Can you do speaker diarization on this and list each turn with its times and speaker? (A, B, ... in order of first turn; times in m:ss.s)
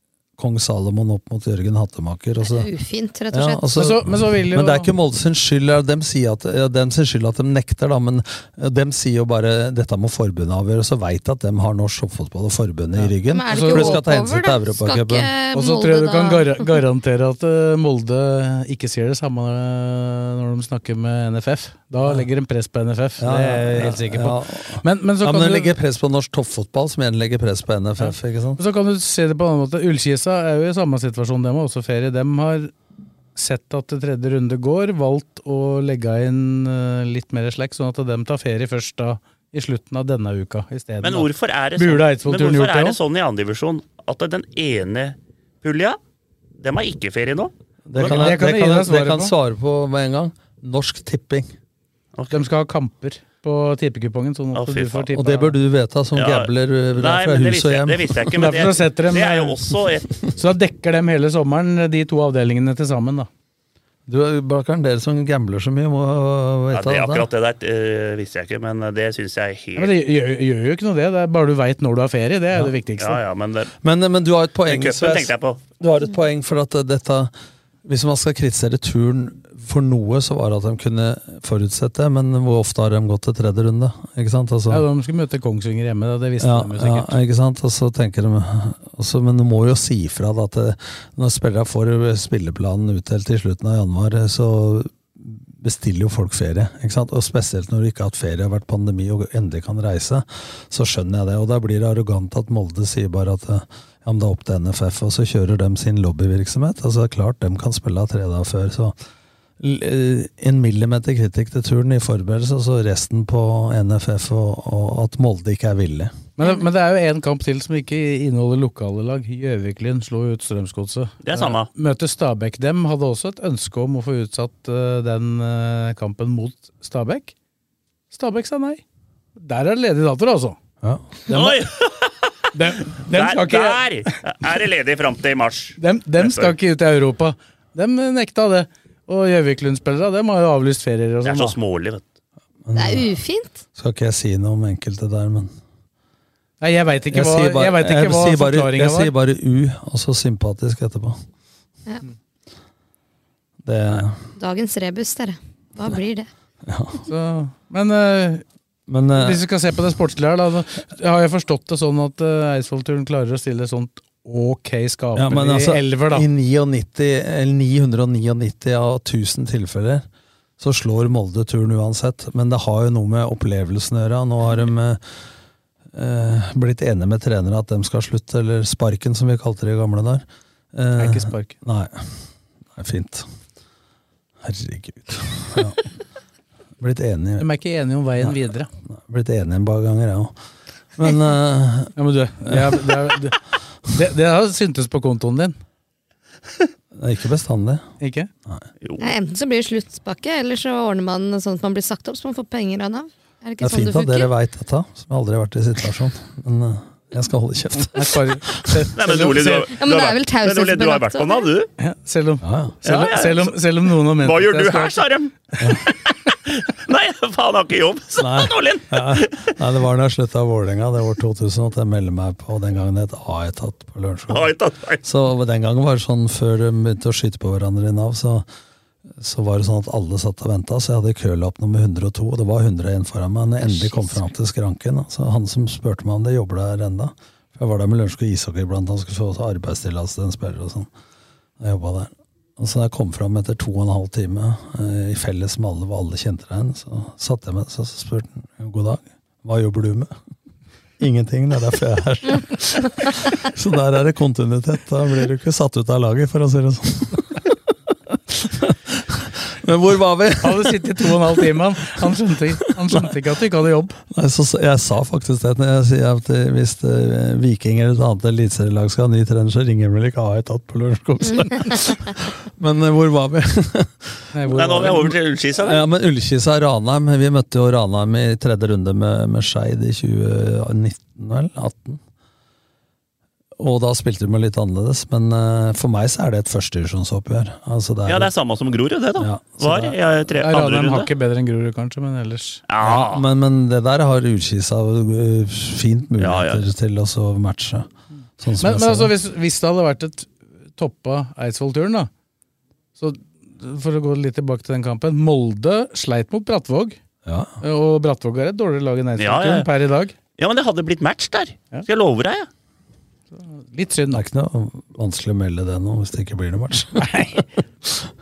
0:00.4-0:02.7 A
0:02.4-0:03.7 B
0:03.3-0:15.3 A
0:03.7-0:04.9 C
0:13.0-0:14.0 C
0:13.3-0:16.7 B
0:15.5-0:25.7 C
0:23.2-0:28.6 A
0:28.0-0:32.7 C
0:33.3-0:43.0 C
0:41.0-0:46.0 D
0:46.6-0:48.2 D
0:47.9-0:51.5 A
0:48.0-0:49.3 C
0:52.3-0:55.6 C
0:54.5-0:55.1 D
0:55.1-0:58.5 A
0:56.1-1:00.2 D
0:58.3-0:59.6 C
1:00.3-1:03.3 C
1:04.1-1:07.3 A
1:06.7-1:09.9 D
1:09.8-1:13.2 C
1:13.0-1:13.7 D
1:13.8-1:17.3 A
1:14.6-1:15.6 D
1:17.8-1:24.8 A
1:24.7-1:27.2 C
1:26.4-1:49.0 A
1:49.6-1:56.1 A
1:56.4-2:07.3 C
2:01.2-2:01.7 D
2:08.1-2:08.8 C
2:09.4-2:10.6 C
2:10.8-2:11.6 A
2:11.3-2:12.3 D
2:12.5-2:13.8 C
2:13.0-2:16.5 D
2:15.8-2:21.6 C
2:21.2-2:22.0 D
2:22.6-2:23.2 A
2:22.7-2:23.6 B
2:23.7-2:25.5 A
2:26.6-2:29.1 C
2:27.1-2:31.2 A
2:33.6-2:34.2 A
2:34.4-2:36.3 B
2:36.6-2:37.0 A
2:37.1-2:38.4 C
2:38.9-2:39.4 A
2:39.1-2:46.2 C
2:45.1-2:50.0 A
2:50.6-2:55.0 A
2:55.9-3:02.2 A
3:01.0-3:01.6 C
3:02.7-3:03.2 A
3:04.4-3:05.8 A
3:06.8-3:07.5 A
3:07.4-3:08.7 C
3:08.2-3:10.3 A
3:11.0-3:11.9 A
3:12.0-3:13.4 C
3:12.4-3:12.9 A
3:13.9-3:15.6 C
3:16.9-3:17.9 A
3:18.0-3:18.3 C
3:18.8-3:19.1 D
3:19.0-3:24.3 B
3:23.6-3:28.6 A
3:27.9-3:29.7 C
3:29.0-3:31.7 D
3:29.7-3:31.5 B
3:31.8-3:35.0 C
3:32.4-3:32.8 A
3:32.8-3:33.6 D
3:34.1-3:39.5 D
3:38.2-3:44.5 A
3:44.3-3:45.0 D
3:45.0-3:48.4 A
3:49.2-4:00.9 A
3:53.7-3:54.2 B
4:01.6-4:10.1 A
4:11.0-4:17.5 A
4:18.1-4:21.4 A
4:20.4-4:24.0 C
4:22.7-4:23.1 A
4:24.1-4:34.2 A
4:34.3-4:35.1 C
4:34.5-4:35.8 D
4:35.5-4:42.0 A
4:43.6-4:48.3 A
4:48.0-4:51.1 D
4:49.2-4:50.0 A
4:50.4-4:52.6 C
4:52.7-4:53.2 D
4:52.8-4:59.1 A
4:56.2-4:56.6 D
4:58.6-5:02.1 C
5:03.0-5:07.0 C
5:07.2-5:07.6 A
5:07.6-5:10.1 C
5:09.2-5:09.7 D
5:10.4-5:12.5 D
5:13.3-5:14.2 C
5:14.1-5:18.1 A
5:17.0-5:17.4 C